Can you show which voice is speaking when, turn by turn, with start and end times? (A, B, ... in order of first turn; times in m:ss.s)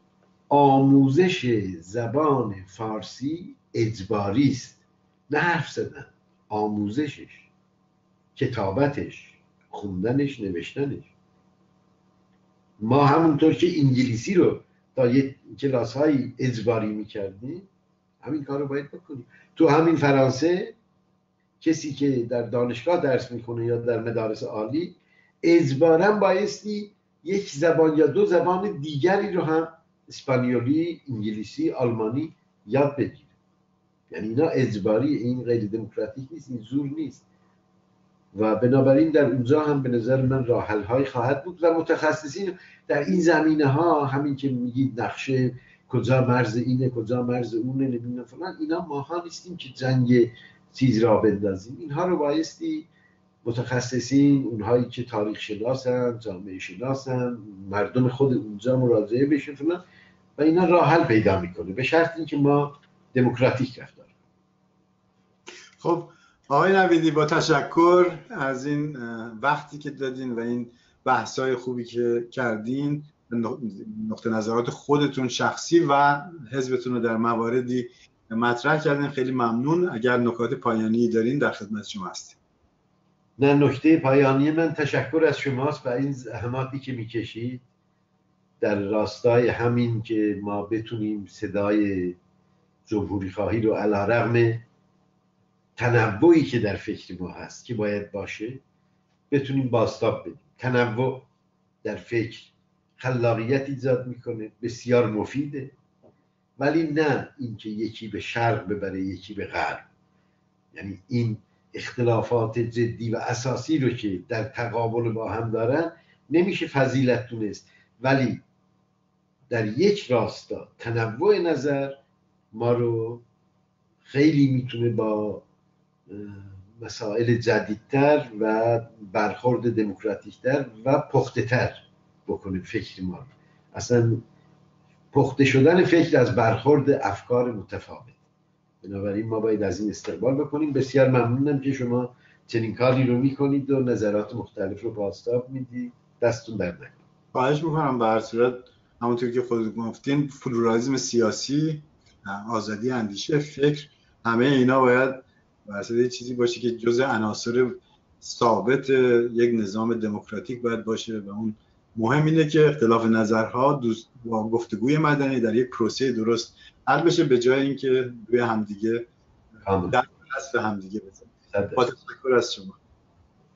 0:00.5-0:07.5 A
0:08.4-0:11.1 A
0:12.8-0:17.7 A
0:18.2-0:20.8 A
0:21.6-0:33.3 A
0:34.1-0:37.2 A
0:38.3-0:52.9 A
0:53.4-0:59.8 A
1:00.4-1:04.1 A
1:05.8-1:22.4 B
1:23.4-1:27.6 A
1:28.6-1:32.2 A
1:32.9-1:34.6 A
1:35.8-1:38.6 A
1:39.3-1:41.3 A
1:41.8-1:45.8 A
1:46.6-1:49.9 A
1:50.7-1:58.4 A
1:59.5-2:02.0 A
2:02.5-2:03.2 A
2:04.0-2:05.4 A
2:06.1-2:14.3 A
2:15.1-2:18.2 A
2:18.8-2:27.0 A
2:27.3-2:49.1 B
2:49.7-2:50.0 A
2:49.9-2:52.8 B
2:51.5-2:51.9 A